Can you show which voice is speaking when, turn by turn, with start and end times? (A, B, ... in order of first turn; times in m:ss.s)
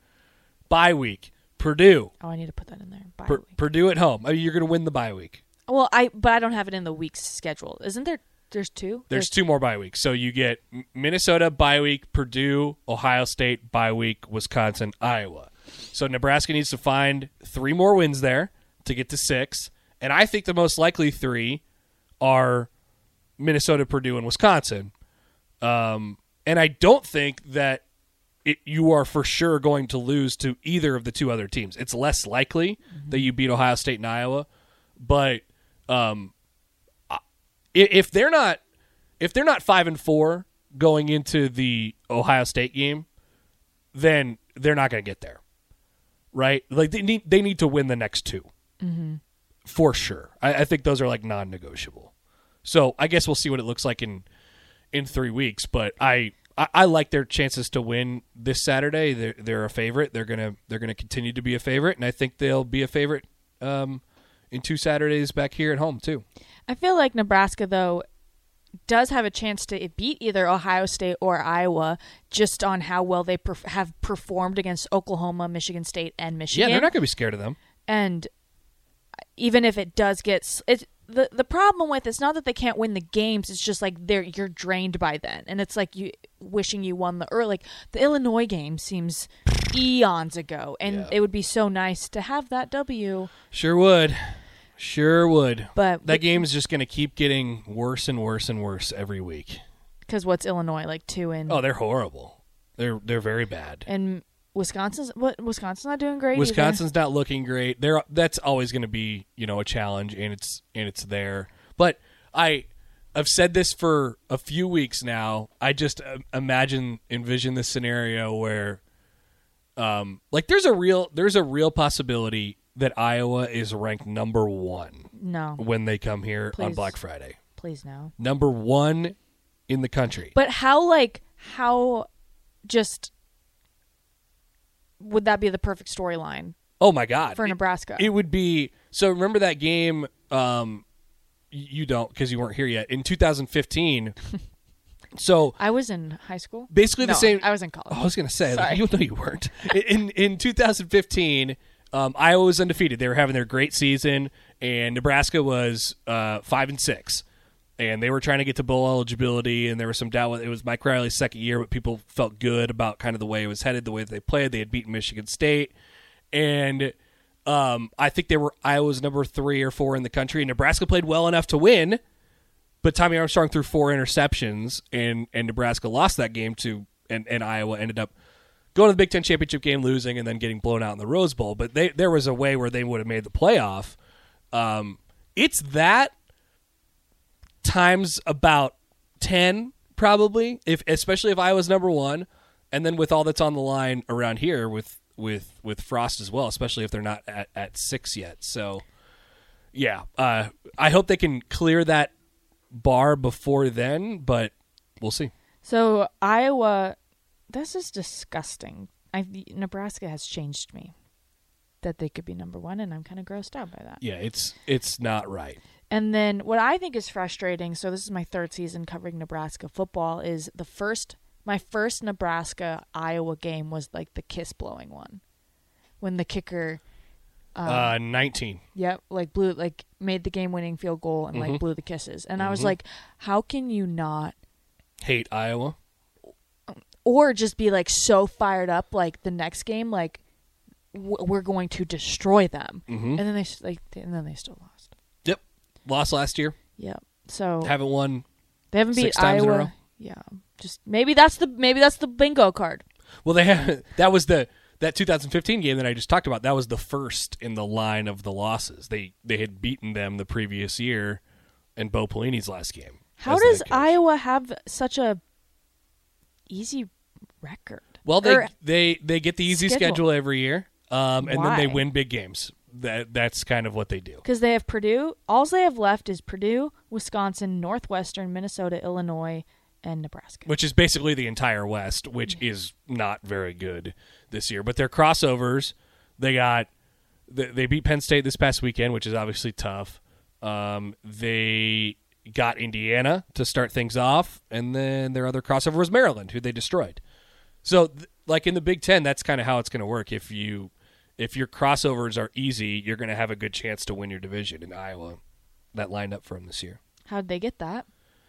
0:00.7-0:02.1 A
0:02.2-0:03.6 B
0:03.3-0:05.4 A
0:05.7-0:09.3 B
0:09.1-0:21.6 A
0:22.2-0:22.7 A
0:23.4-0:24.9 A
0:25.6-0:27.8 A
0:28.4-0:34.5 A
0:33.0-0:33.3 B
0:35.0-0:36.3 A
0:37.7-0:38.6 A
0:39.2-0:43.1 A
0:43.9-0:45.4 A
0:46.3-0:48.5 A
0:48.8-0:49.2 B
0:49.7-0:52.1 A
0:52.6-0:54.3 A
0:54.9-1:06.2 A
1:06.7-1:08.0 B
1:08.9-1:16.9 B
1:16.5-1:17.6 A
1:17.9-1:18.3 B
1:19.4-1:33.3 B
1:30.8-1:31.1 A
1:33.5-1:39.6 A
1:35.8-1:36.4 B
1:40.1-1:41.6 B
1:41.5-1:43.9 A
1:43.9-1:46.8 B
1:46.3-1:58.8 A
1:59.8-2:07.4 A
2:05.1-2:05.6 B
2:06.5-2:07.0 B
2:07.6-2:08.1 B
2:08.2-2:09.2 A
2:09.7-2:10.4 A
2:10.3-2:12.1 B
2:12.7-2:13.1 B
2:15.0-2:16.6 B
2:16.8-2:20.8 A
2:17.4-2:18.1 B
2:21.5-2:24.2 A
2:25.2-2:25.6 A
2:25.6-2:28.8 B
2:26.7-2:37.2 A
2:37.8-2:45.7 A
2:46.3-2:47.0 A
2:47.5-2:52.0 A
2:52.8-2:58.1 A
2:58.8-3:04.0 A
3:04.5-3:06.1 A
3:07.6-3:18.8 A
3:19.7-3:22.1 A
3:22.7-3:25.3 A
3:25.6-3:27.0 B
3:27.5-3:30.9 B
3:31.8-3:34.0 B
3:34.0-3:35.6 A
3:35.9-3:45.2 B
3:46.0-3:46.8 B
3:47.6-3:48.0 B
3:47.6-3:48.6 A
3:48.8-3:54.4 B
3:51.3-3:51.6 A
3:52.4-3:52.7 A
3:55.0-3:55.8 A
3:56.7-4:00.2 B
4:00.9-4:04.9 B
4:02.9-4:03.2 A
4:05.2-4:06.6 A
4:06.8-4:07.8 B
4:07.6-4:08.2 A
4:08.7-4:12.8 B
4:08.9-4:09.7 A
4:13.2-4:21.2 A
4:21.8-4:24.0 A
4:23.2-4:25.2 B
4:26.5-4:26.9 B
4:27.4-4:28.5 B
4:28.0-4:34.2 A
4:29.5-4:30.0 B
4:31.2-4:31.8 B
4:34.2-4:40.5 B
4:40.5-4:46.7 A
4:47.3-4:57.0 A
4:57.6-5:05.2 A
5:05.7-5:06.8 A
5:07.1-5:07.9 B